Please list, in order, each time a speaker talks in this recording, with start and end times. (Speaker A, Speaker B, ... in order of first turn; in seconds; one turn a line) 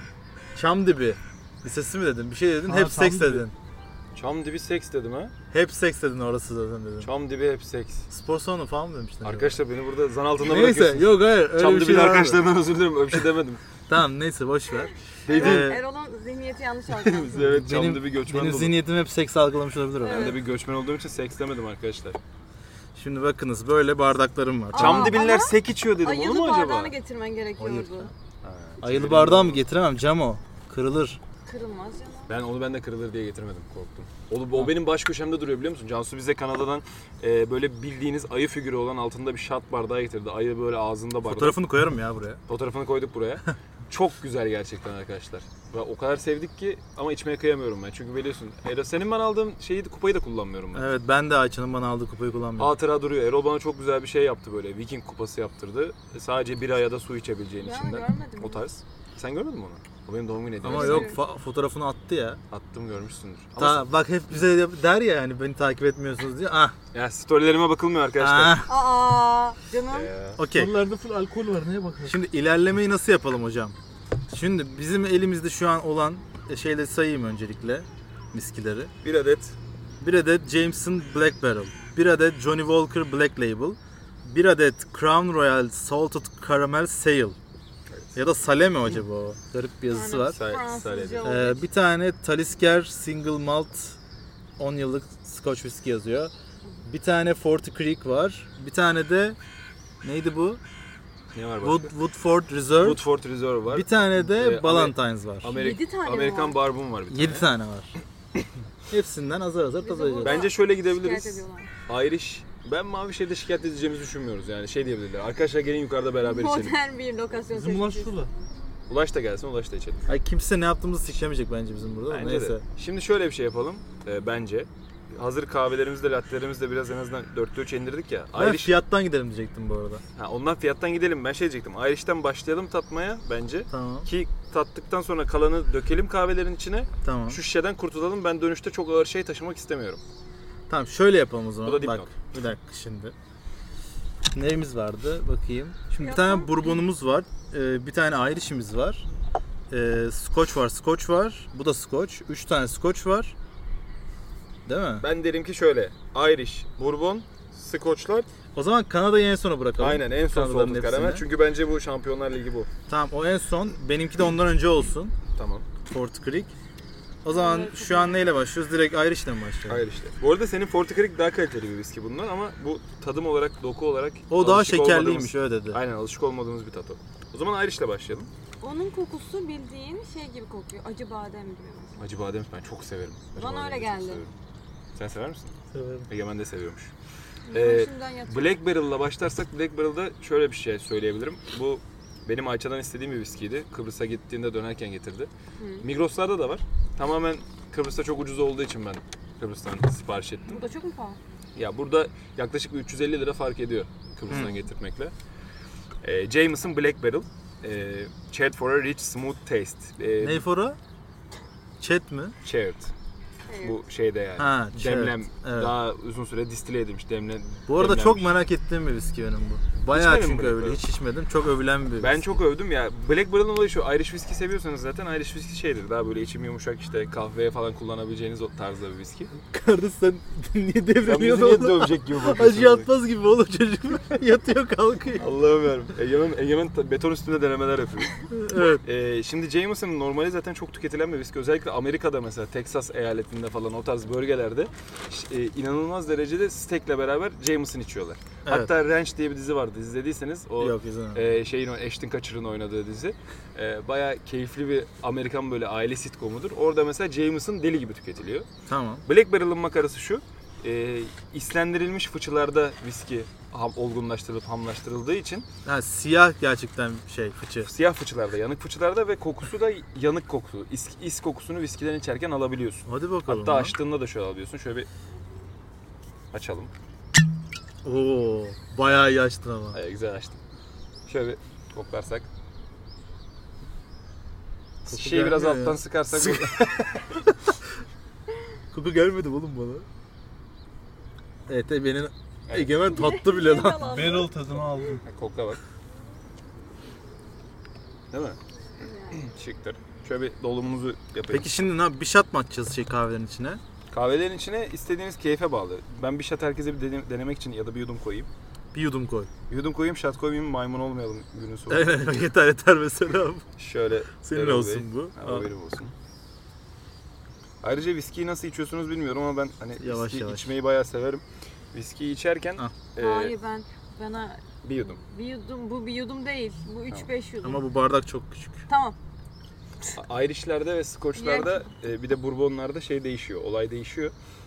Speaker A: 0.5-3.5
Speaker B: 2.6-3.5
Speaker C: 4.1-5.3
Speaker A: 5.5-7.1
Speaker C: 7.0-8.1
Speaker A: 8.1-9.6
Speaker C: 9.2-13.6
Speaker A: 10.4-12.4
Speaker A: 13.9-15.8
Speaker C: 15.2-15.7
Speaker D: 15.3-17.5
Speaker C: 16.9-18.8
Speaker A: 17.5-20.4
Speaker D: 20.0-20.4
Speaker C: 20.1-22.2
Speaker A: 22.9-25.2
Speaker D: 24.7-28.1
Speaker C: 24.7-26.9
Speaker A: 27.6-28.1
Speaker C: 28.4-29.6
Speaker A: 28.8-31.2
Speaker D: 31.4-32.3
Speaker C: 32.3-41.6
Speaker A: 41.2-42.4
Speaker C: 42.5-50.9
Speaker A: 50.7-52.7
Speaker C: 52.6-61.2
Speaker D: 57.6-58.6
Speaker A: 60.6-62.4
Speaker D: 60.7-61.2
Speaker C: 62.5-63.9
Speaker A: 63.6-66.7
Speaker C: 66.9-68.7
Speaker A: 68.2-68.7
Speaker D: 68.7-70.1
Speaker C: 69.9-70.4
Speaker A: 70.4-70.8
Speaker B: 70.5-72.1
Speaker A: 72.0-73.8
Speaker A: 74.3-78.9
Speaker C: 79.0-79.5
Speaker A: 80.0-87.3
Speaker C: 87.9-88.2
Speaker A: 88.1-90.4
Speaker D: 89.9-91.7
Speaker C: 90.3-91.3
Speaker A: 91.2-94.0
Speaker A: 94.6-96.3
Speaker A: 96.8-99.4
Speaker A: 100.0-100.6
Speaker C: 101.3-101.9
Speaker A: 101.6-103.0
Speaker C: 102.8-107.5
Speaker A: 103.7-105.5
Speaker D: 105.5-106.6
Speaker A: 107.1-107.9
Speaker A: 108.9-110.5
Speaker D: 109.8-111.7
Speaker C: 110.2-116.8
Speaker D: 116.2-118.1
Speaker B: 117.5-118.3
Speaker C: 118.9-120.0
Speaker A: 120.1-122.6
Speaker C: 122.1-128.7
Speaker A: 128.3-130.0
Speaker C: 130.2-140.0
Speaker A: 133.7-134.1
Speaker A: 137.0-137.4
Speaker A: 140.7-143.1
Speaker C: 141.6-142.2
Speaker A: 144.3-149.0
Speaker D: 145.9-146.8
Speaker A: 149.7-153.3
Speaker A: 154.7-155.1
Speaker C: 155.0-158.3
Speaker A: 158.5-161.2
Speaker C: 159.8-162.7
Speaker A: 162.9-165.1
Speaker C: 165.3-165.7
Speaker A: 165.8-166.5
Speaker A: 167.2-169.8
Speaker D: 167.3-168.2
Speaker C: 169.7-178.3
Speaker A: 174.3-175.8
Speaker D: 178.6-182.0
Speaker C: 182.0-184.3
Speaker D: 183.3-184.2
Speaker C: 184.9-185.5
Speaker A: 185.7-186.1
Speaker C: 186.1-186.9
Speaker D: 187.5-188.6
Speaker C: 187.5-195.3
Speaker D: 195.6-195.9
Speaker C: 195.8-200.6
Speaker D: 200.5-201.2
Speaker C: 201.6-205.1
Speaker A: 204.3-204.5
Speaker D: 204.3-204.6
Speaker C: 206.0-210.4
Speaker A: 210.2-210.8
Speaker A: 211.8-212.3
Speaker C: 212.4-212.9
Speaker D: 213.5-213.8
Speaker C: 213.6-218.3
Speaker A: 214.4-215.7
Speaker A: 217.7-222.4
Speaker C: 219.9-220.8
Speaker C: 222.0-229.3
Speaker A: 229.5-235.3
Speaker C: 231.0-232.9
Speaker C: 235.2-238.2
Speaker A: 238.3-238.8
Speaker C: 238.8-258.4
Speaker A: 248.4-248.7
Speaker A: 250.6-251.3
Speaker A: 258.7-259.0
Speaker C: 259.1-265.5
Speaker A: 265.6-267.7
Speaker C: 267.6-274.9
Speaker A: 272.9-273.7
Speaker C: 276.3-276.7
Speaker A: 277.8-279.8
Speaker C: 279.7-280.4
Speaker C: 281.1-282.3
Speaker C: 284.8-287.0
Speaker A: 284.9-287.6
Speaker A: 288.7-289.9
Speaker A: 291.5-294.2
Speaker C: 292.5-292.7
Speaker D: 292.8-294.5
Speaker B: 293.8-295.0
Speaker C: 295.0-295.6
Speaker C: 298.1-298.4
Speaker D: 298.8-299.3
Speaker C: 299.1-301.5
Speaker A: 301.3-303.6
Speaker C: 303.9-308.3
Speaker A: 308.7-309.3
Speaker C: 309.5-312.2
Speaker A: 311.7-313.4
Speaker C: 313.6-315.9
Speaker A: 314.2-315.5
Speaker C: 317.6-323.3
Speaker A: 319.8-320.5
Speaker D: 323.0-327.6
Speaker C: 324.6-325.0
Speaker A: 327.4-328.6
Speaker D: 328.7-328.9
Speaker C: 329.9-334.1
Speaker D: 331.1-331.7